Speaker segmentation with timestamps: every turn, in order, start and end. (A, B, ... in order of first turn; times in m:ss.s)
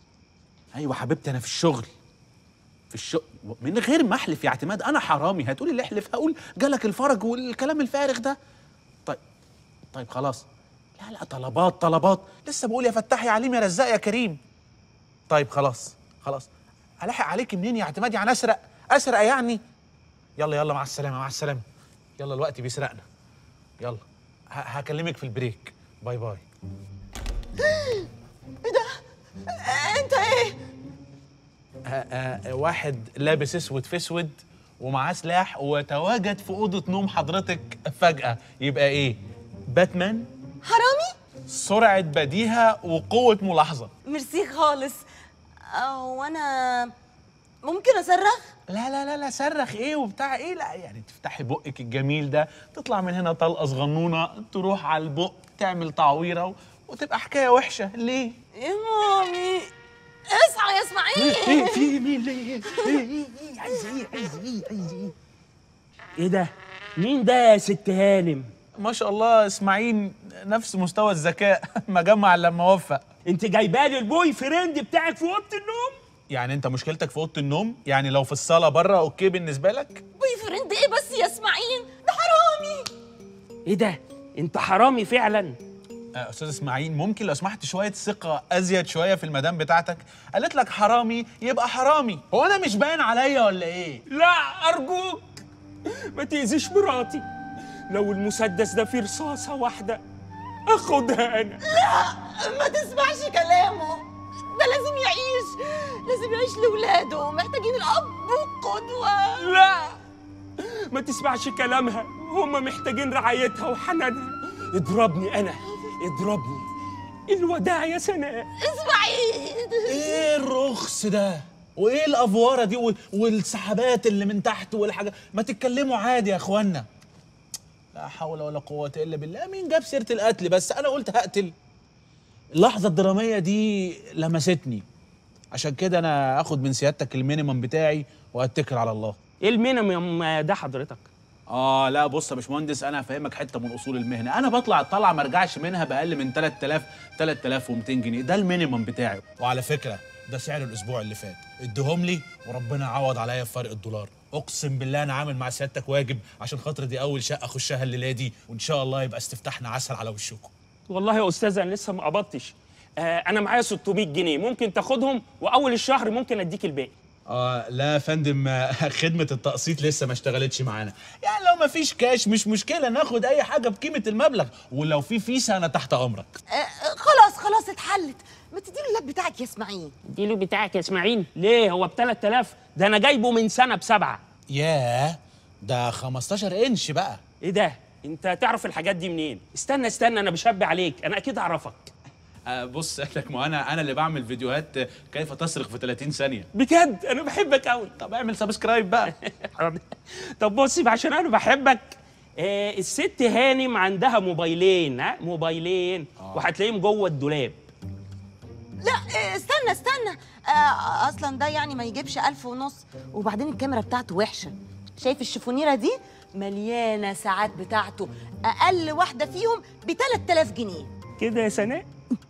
0:00.7-0:01.9 A
0:02.9-0:08.4 A
0:09.9-0:10.5 A
0:11.0-0:14.4 A
0:15.3-0:16.5 A
0:17.0-0:19.6 A
0:20.4-0:21.6 A
0:22.2-0:23.0 A
0:23.8-0:26.4 A
0:27.6-0:28.1 B
0:28.6-0:30.6 B
0:31.8-0:40.3 A
0:40.6-0:41.2 B
0:41.5-0:43.9 A
0:44.1-0:45.0 B
0:45.7-0:46.9 B
0:47.6-0:48.5 B
0:48.7-0:58.4 A
0:58.6-0:59.7 B
1:00.3-1:01.9 B
1:01.2-1:05.1 A
1:02.7-1:03.0 B
1:06.2-1:08.5 C
1:08.8-1:13.0 A
1:13.3-1:16.0 C
1:16.3-1:20.0 A
1:20.2-1:22.9 B
1:23.7-1:25.6 C
1:26.2-1:34.0 A
1:34.1-1:37.2 C
1:37.9-1:40.0 C
1:40.7-1:41.6 C
1:41.6-1:49.5 B
1:49.4-1:50.0 C
1:50.6-1:56.7 C
1:57.3-1:58.5 C
1:58.6-2:00.3 B
1:59.9-2:06.9 A
2:07.9-2:11.5 A
2:12.5-2:14.8 A
2:15.5-2:19.2 A
2:19.4-2:21.1 C
2:21.5-2:40.5 A
2:40.9-2:46.9 C
2:47.3-2:56.4 A
2:56.5-3:00.0 B
3:00.0-3:04.2 C
3:04.5-3:07.2 A
3:07.4-3:11.9 C
3:12.5-3:16.5 A
3:16.5-3:17.9 C
3:18.0-3:19.1 A
3:19.2-3:27.6 C
3:26.2-3:26.5 A
3:28.8-3:40.9 B
3:41.2-3:41.9 C